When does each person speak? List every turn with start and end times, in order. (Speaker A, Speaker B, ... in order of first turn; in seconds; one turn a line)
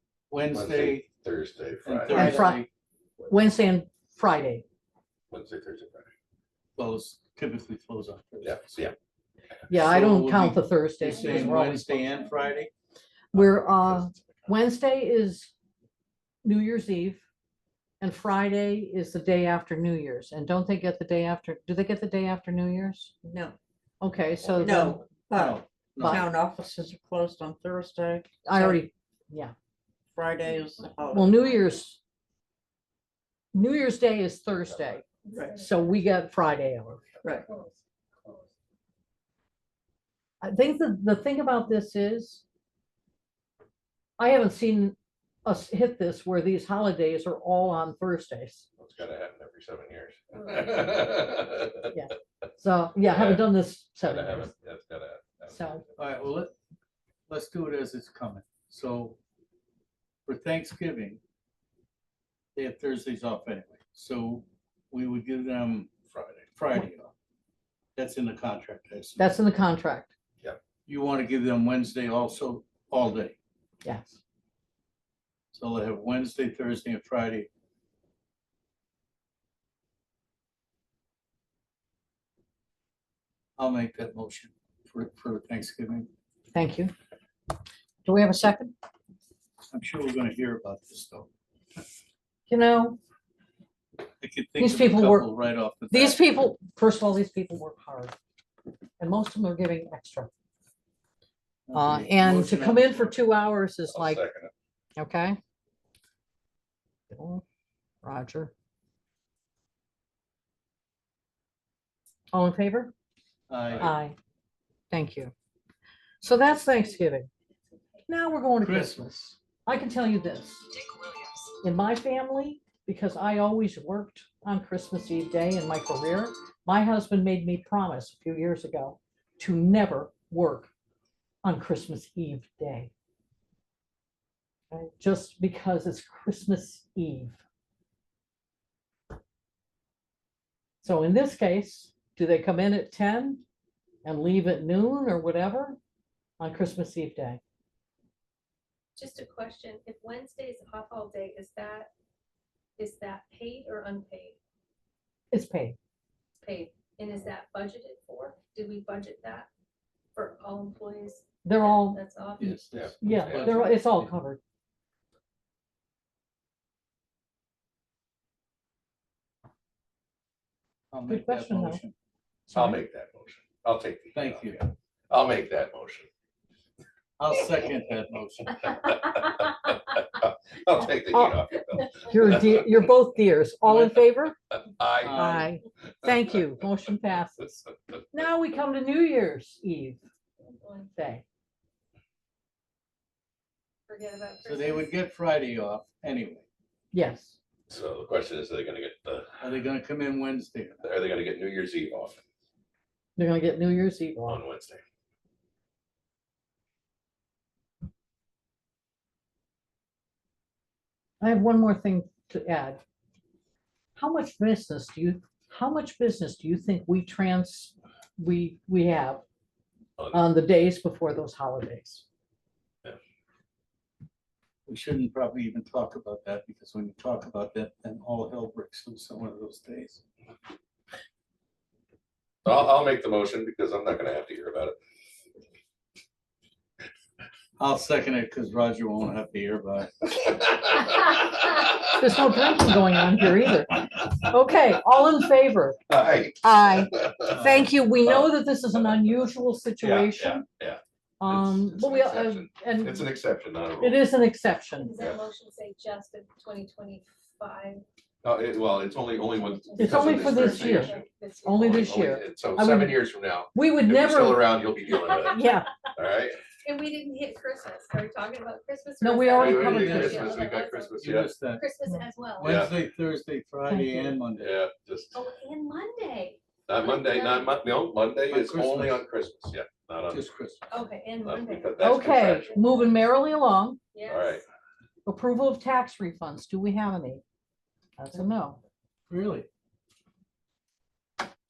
Speaker A: 0.3-1.1
Speaker B: 0.5-2.4
Speaker A: 1.8-2.7
Speaker C: 2.1-2.6
Speaker C: 3.2-4.6
Speaker B: 5.3-6.1
Speaker A: 6.8-8.7
Speaker B: 8.4-8.9
Speaker C: 9.7-12.1
Speaker A: 9.7-12.7
Speaker D: 11.2-11.6
Speaker D: 12.2-12.6
Speaker C: 13.3-15.5
Speaker B: 13.3-14.5
Speaker C: 16.4-17.2
Speaker C: 18.0-23.2
Speaker E: 23.2-23.5
Speaker C: 24.0-25.0
Speaker B: 24.4-24.9
Speaker E: 24.6-28.8
Speaker A: 25.3-26.3
Speaker C: 26.0-26.2
Speaker C: 28.4-29.5
Speaker E: 30.1-31.6
Speaker D: 30.4-31.7
Speaker C: 31.1-32.0
Speaker C: 33.5-35.0
Speaker D: 35.2-35.7
Speaker E: 35.3-35.6
Speaker C: 35.6-37.1
Speaker E: 37.2-37.5
Speaker D: 37.3-38.5
Speaker C: 40.4-42.4
Speaker C: 44.2-48.6
Speaker B: 48.8-51.9
Speaker D: 50.4-50.7
Speaker C: 51.9-54.5
Speaker B: 53.0-53.5
Speaker B: 54.0-56.0
Speaker C: 55.5-55.8
Speaker A: 56.0-56.5
Speaker A: 57.3-59.2
Speaker A: 60.2-61.2
Speaker A: 62.5-65.9
Speaker B: 66.1-66.5
Speaker A: 66.5-67.1
Speaker A: 68.0-69.2
Speaker C: 69.2-70.1
Speaker A: 70.8-73.3
Speaker C: 73.8-74.2
Speaker A: 75.5-77.5
Speaker A: 83.6-86.1
Speaker C: 86.5-86.9
Speaker C: 88.0-88.7
Speaker A: 89.7-91.3
Speaker C: 92.5-93.0
Speaker A: 94.2-96.2
Speaker C: 94.6-95.3
Speaker C: 95.9-98.2
Speaker C: 99.0-100.3
Speaker A: 101.7-103.2
Speaker C: 101.7-104.2
Speaker B: 103.9-104.5
Speaker C: 105.0-105.4
Speaker C: 107.1-107.4
Speaker C: 108.0-108.5
Speaker C: 112.3-112.9
Speaker A: 113.5-113.9
Speaker C: 113.8-114.2
Speaker C: 114.9-115.3
Speaker C: 116.2-117.3
Speaker C: 118.1-120.7
Speaker A: 118.6-119.1
Speaker C: 121.6-130.7
Speaker C: 131.4-132.9
Speaker C: 134.7-137.4
Speaker C: 140.8-143.4
Speaker C: 144.0-145.8
Speaker C: 146.4-147.4
Speaker D: 148.9-151.9
Speaker D: 152.8-154.4
Speaker C: 155.3-155.8
Speaker D: 156.4-159.5
Speaker D: 160.1-162.6
Speaker C: 161.4-162.0
Speaker A: 162.4-164.1
Speaker B: 162.7-163.7
Speaker C: 163.0-164.4
Speaker A: 170.9-171.9
Speaker C: 171.1-171.8
Speaker C: 172.5-172.8
Speaker B: 172.5-176.1
Speaker A: 174.1-174.6
Speaker A: 177.2-178.6
Speaker B: 179.2-182.6
Speaker C: 181.1-181.4
Speaker C: 182.0-184.4
Speaker A: 183.7-183.9
Speaker B: 184.8-185.2
Speaker A: 185.0-185.5
Speaker C: 185.1-187.6
Speaker C: 188.1-190.0
Speaker D: 190.5-190.9
Speaker C: 190.9-191.2
Speaker D: 193.9-194.9
Speaker A: 194.4-196.4
Speaker C: 196.9-197.4
Speaker B: 197.7-199.5
Speaker A: 199.4-200.8
Speaker B: 200.8-202.2
Speaker C: 203.2-204.4
Speaker B: 204.3-204.8
Speaker C: 211.2-212.8
Speaker C: 213.9-219.2
Speaker C: 220.1-222.0
Speaker A: 224.7-230.0
Speaker B: 232.4-234.8
Speaker A: 237.6-240.0
Speaker B: 240.3-241.8
Speaker C: 242.0-245.8
Speaker B: 245.9-247.3
Speaker C: 246.4-250.4
Speaker A: 247.3-247.7
Speaker B: 249.8-254.1
Speaker C: 251.2-253.1
Speaker C: 253.8-254.9
Speaker D: 254.8-257.8
Speaker B: 254.9-255.2
Speaker B: 258.2-266.4
Speaker D: 259.4-261.9
Speaker C: 259.8-260.9
Speaker C: 261.4-264.6
Speaker D: 264.9-265.5
Speaker C: 265.2-265.7
Speaker D: 266.6-272.6
Speaker C: 269.0-270.4
Speaker B: 269.3-271.3
Speaker A: 269.4-270.3
Speaker A: 271.0-271.6
Speaker A: 272.4-274.4
Speaker B: 272.4-272.8
Speaker C: 273.7-274.2
Speaker B: 274.3-275.2
Speaker D: 275.1-277.6
Speaker B: 276.7-280.3
Speaker A: 278.3-279.0
Speaker A: 280.1-280.7
Speaker D: 280.7-283.0
Speaker B: 281.2-282.9
Speaker C: 281.8-283.8
Speaker D: 283.9-284.4
Speaker B: 284.1-284.4
Speaker C: 285.1-287.2
Speaker C: 288.0-288.6
Speaker A: 289.1-289.5